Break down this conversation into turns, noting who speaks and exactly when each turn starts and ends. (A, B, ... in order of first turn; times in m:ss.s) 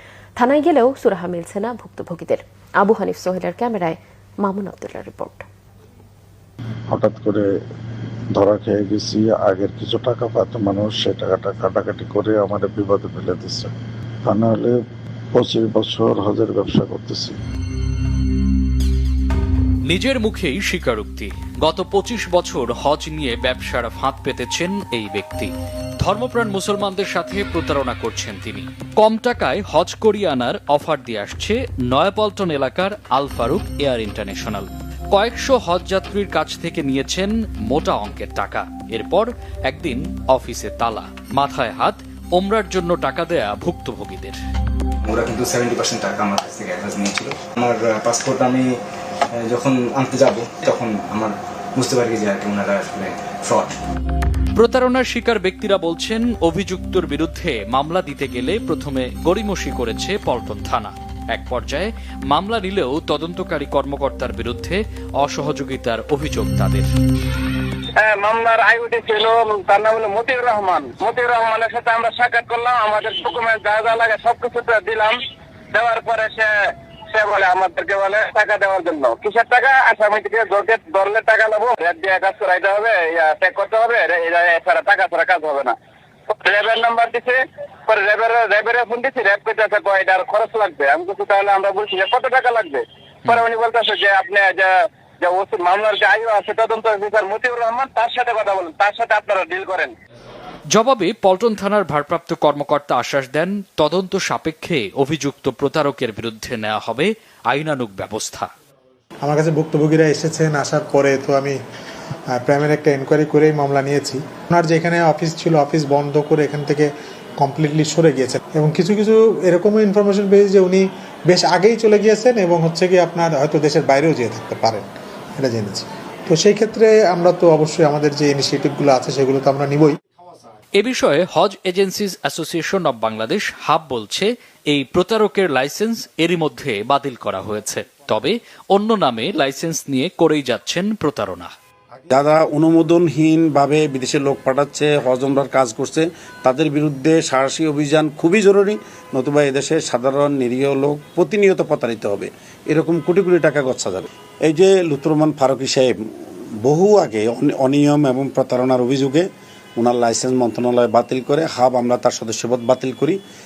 0:00.4-0:05.4 A
0:06.9-0:07.4 B
0:08.3-0:13.7 B
0:14.2-0:14.7 B
0:15.3-0:17.4 B
0:19.9-0:44.4 C
0:45.0-0:48.7 D
0:49.4-0:53.7 D
0:54.6-1:06.9 C
1:08.0-1:15.2 E
1:15.7-1:16.5 E
1:17.1-1:25.7 E
1:26.3-1:39.9 E
1:40.7-1:48.5 C
1:49.2-1:51.6 F
1:52.4-1:56.9 F
1:57.4-2:04.8 F
2:05.4-2:10.0 F
2:10.8-2:21.5 C
2:22.1-2:35.9 G
2:36.6-2:39.2 G
2:39.8-2:43.2 G